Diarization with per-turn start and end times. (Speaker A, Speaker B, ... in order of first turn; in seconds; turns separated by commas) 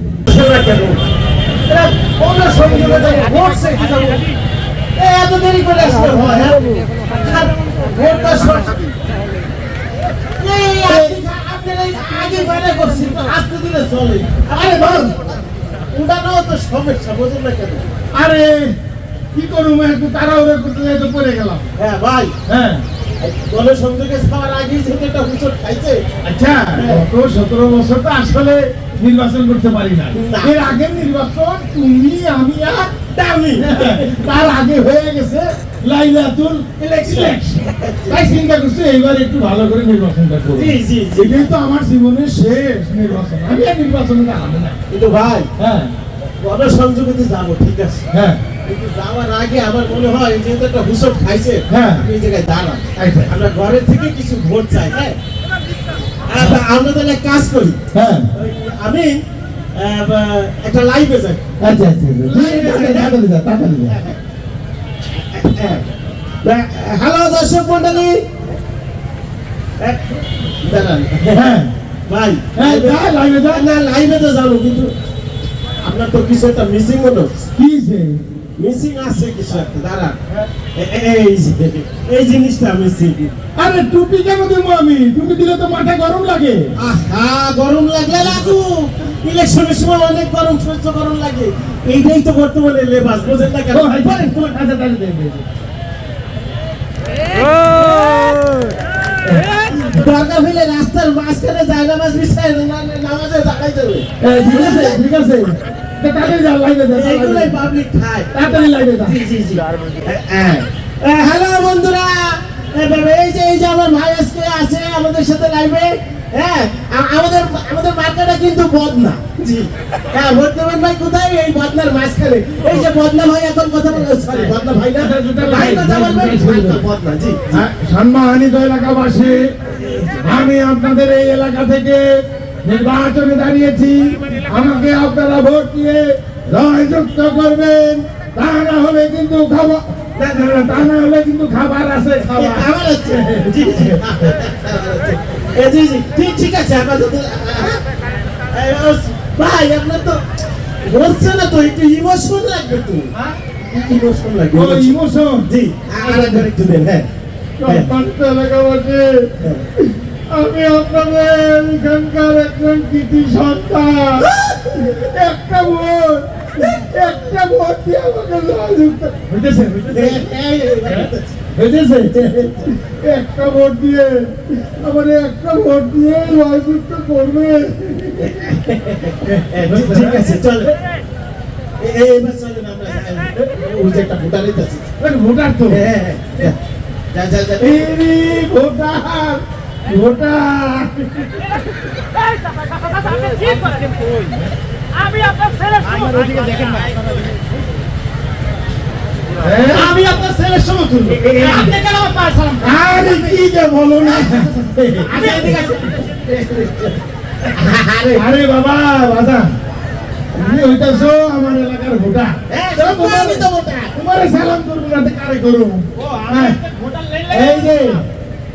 Speaker A: 0.3-1.0, Speaker A: 1.7-4.3, Speaker A: 5.0-6.6, Speaker A: 7.2-8.9, Speaker A: 10.4-15.2, Speaker B: 10.9-11.1, Speaker B: 14.5-15.1, Speaker A: 15.9-17.9, Speaker B: 18.1-18.8, Speaker B: 19.4-21.7, Speaker A: 21.8-22.4, Speaker B: 22.5-22.8, Speaker A: 23.2-26.1, Speaker B: 26.2-32.9, Speaker A: 26.7-27.0, Speaker A: 30.1-30.6, Speaker A: 33.1-34.1, Speaker B: 33.6-44.8, Speaker A: 37.0-38.3, Speaker A: 40.5-41.5, Speaker A: 44.9-45.5, Speaker B: 45.6-45.9, Speaker A: 46.4-48.1, Speaker B: 48.1-48.4, Speaker A: 48.6-55.2, Speaker B: 51.7-52.1, Speaker B: 53.0-53.3, Speaker A: 56.3-57.8, Speaker B: 57.9-58.3, Speaker A: 58.3-61.4, Speaker B: 61.6-64.0, Speaker A: 62.3-63.1, Speaker A: 65.1-65.9, Speaker A: 66.4-68.2, Speaker A: 70.6-71.5, Speaker B: 71.3-71.7, Speaker A: 72.1-75.0, Speaker B: 72.5-73.7, Speaker A: 75.8-77.5, Speaker B: 77.6-78.2, Speaker A: 78.6-80.2, Speaker A: 80.7-83.3, Speaker B: 83.6-86.8, Speaker A: 86.8-94.4, Speaker B: 93.7-95.5, Speaker A: 99.7-105.0, Speaker B: 104.2-107.6, Speaker A: 106.9-108.3, Speaker B: 108.3-109.2, Speaker A: 109.0-127.7, Speaker B: 125.0-126.8, Speaker B: 127.5-129.4, Speaker B: 130.2-144.1, Speaker A: 142.3-147.8, Speaker A: 148.5-150.2, Speaker A: 150.8-154.9, Speaker B: 154.5-156.5, Speaker A: 155.4-157.1, Speaker B: 157.6-170.3, Speaker A: 157.7-157.9, Speaker A: 164.3-164.6, Speaker A: 169.9-171.4, Speaker B: 170.8-178.4, Speaker A: 178.2-180.7, Speaker B: 179.2-180.3, Speaker A: 181.8-184.9, Speaker B: 185.0-185.8, Speaker A: 185.7-186.6, Speaker A: 187.1-187.9, Speaker B: 187.6-191.5, Speaker C: 192.3-194.1, Speaker C: 195.2-195.7, Speaker A: 196.3-196.8, Speaker B: 199.4-200.0, Speaker A: 199.7-201.7, Speaker C: 200.2-200.5, Speaker B: 201.4-201.7, Speaker C: 201.8-202.5, Speaker B: 202.6-204.6, Speaker A: 204.1-207.0, Speaker A: 207.5-208.2, Speaker B: 208.1-209.6, Speaker B: 210.3-216.6, Speaker A: 212.5-213.9, Speaker A: 216.0-218.0, Speaker B: 217.3-218.0